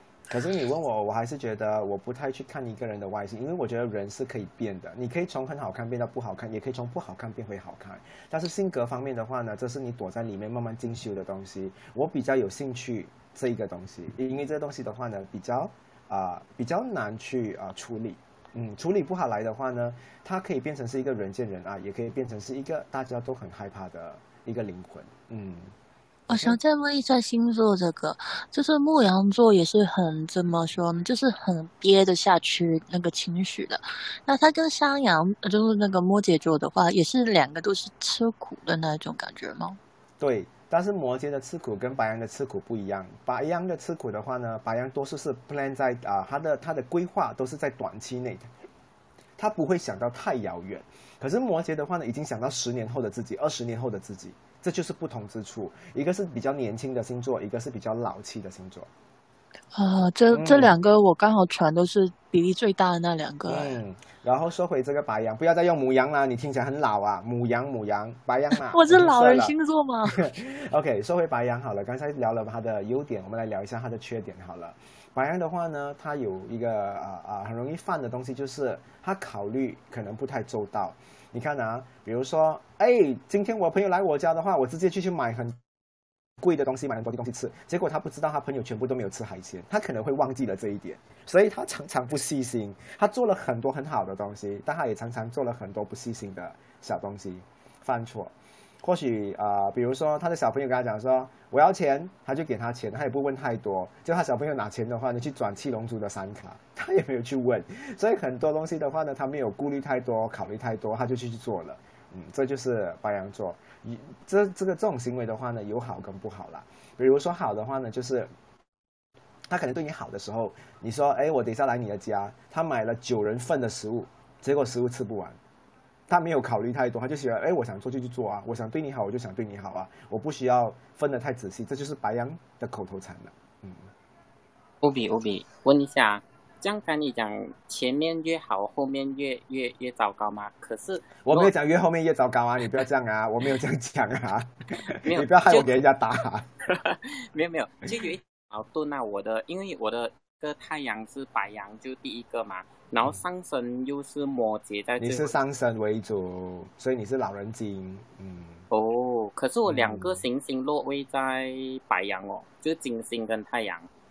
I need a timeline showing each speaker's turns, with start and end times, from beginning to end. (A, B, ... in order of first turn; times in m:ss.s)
0:00.3-0:25.7 A
0:26.3-0:39.8 B
0:26.3-0:26.6 A
0:40.2-0:48.5 A
0:49.4-0:58.9 A
0:59.7-1:03.8 B
1:00.3-1:00.8 A
1:03.5-1:25.6 A
1:08.5-1:10.3 B
1:26.4-1:58.3 A
1:59.5-2:05.4 A
2:06.1-2:13.9 A
2:14.8-2:21.5 C
2:21.2-2:26.5 A
2:25.1-2:25.8 C
2:26.7-2:35.4 C
2:35.0-2:38.6 A
2:38.7-2:43.9 C
2:39.7-2:40.2 A